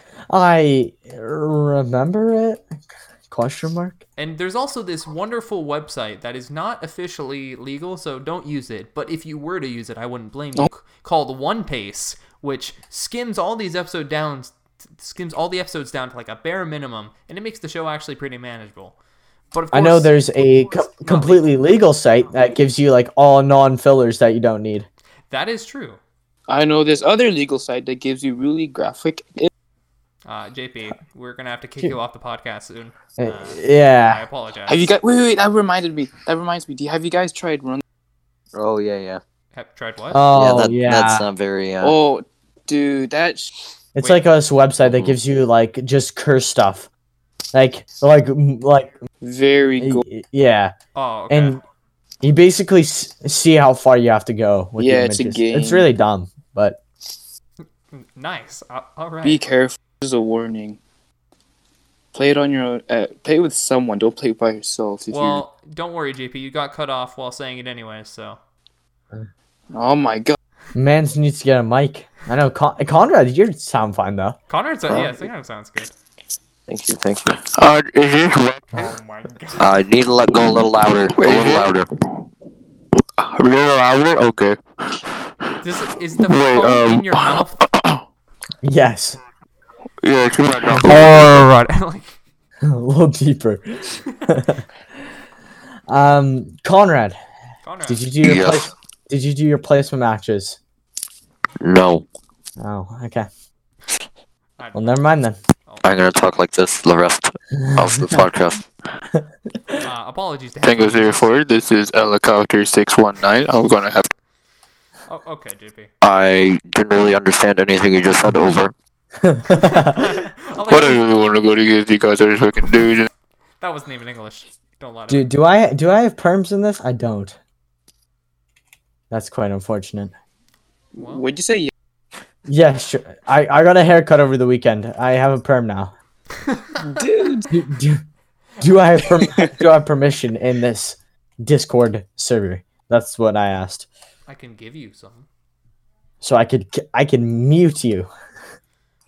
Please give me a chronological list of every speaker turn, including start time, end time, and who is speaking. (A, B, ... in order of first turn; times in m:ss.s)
0:00.3-0:02.6 A
0:03.3-0:04.0 A
0:04.2-0:19.0 B
0:19.5-0:20.1 B
0:19.7-0:24.9 A
0:20.9-0:21.5 B
0:25.3-0:26.0 B
0:26.5-0:29.5 C
0:30.2-0:34.9 B
0:33.2-0:34.2 A
0:34.7-0:37.8 C
0:38.5-0:39.2 D
0:39.5-0:40.2 B
0:40.1-0:41.2 A
0:40.3-0:42.0 D
0:41.8-0:43.5 C
0:43.9-0:46.9 A
0:44.8-0:45.2 D
0:47.5-0:48.9 A
0:49.2-0:50.0 C
0:49.8-0:50.7 A
0:50.9-0:51.6 B
0:51.3-0:51.6 A
0:52.2-0:56.8 A
0:54.8-0:55.9 C
0:57.9-0:59.5 B
0:59.2-1:00.8 C
1:02.1-1:05.4 C
1:05.1-1:08.4 B
1:09.7-1:10.4 C
1:10.7-1:14.4 A
1:14.5-1:15.9 B
1:14.9-1:15.3 D
1:16.7-1:17.4 D
1:17.4-1:18.9 E
1:18.7-1:19.7 B
1:19.6-1:21.9 D
1:21.1-1:21.7 E
1:23.2-1:24.6 E
1:25.6-1:27.6 B
1:26.2-1:28.0 E
1:28.6-1:29.2 A
1:30.0-1:31.4 E
1:30.7-1:32.1 B
1:32.6-1:34.6 A
1:35.9-1:37.1 A
1:37.6-1:38.1 B
1:37.9-1:40.6 A
1:38.2-1:38.7 D
1:41.6-1:42.0 D
1:42.6-1:43.3 A
1:44.6-1:45.1 B
1:44.7-1:45.4 A
1:45.8-1:48.6 D
1:47.6-1:48.2 A
1:49.1-1:49.8 A
1:49.8-1:51.3 B
1:50.6-1:54.1 E
1:55.1-1:55.9 B
1:56.0-1:58.7 D
1:59.2-2:00.0 A
1:59.5-2:01.0 B
2:00.7-2:03.1 E
2:03.6-2:05.3 B
2:05.1-2:07.4 A
2:09.1-2:10.1 A
2:10.9-2:11.7 C
2:11.0-2:11.2 B
2:12.5-2:15.9 A
2:16.4-2:16.8 B
2:16.8-2:17.6 C
2:17.5-2:18.0 A
2:18.6-2:23.9 A
2:24.3-2:25.3 B
2:26.2-2:28.1 A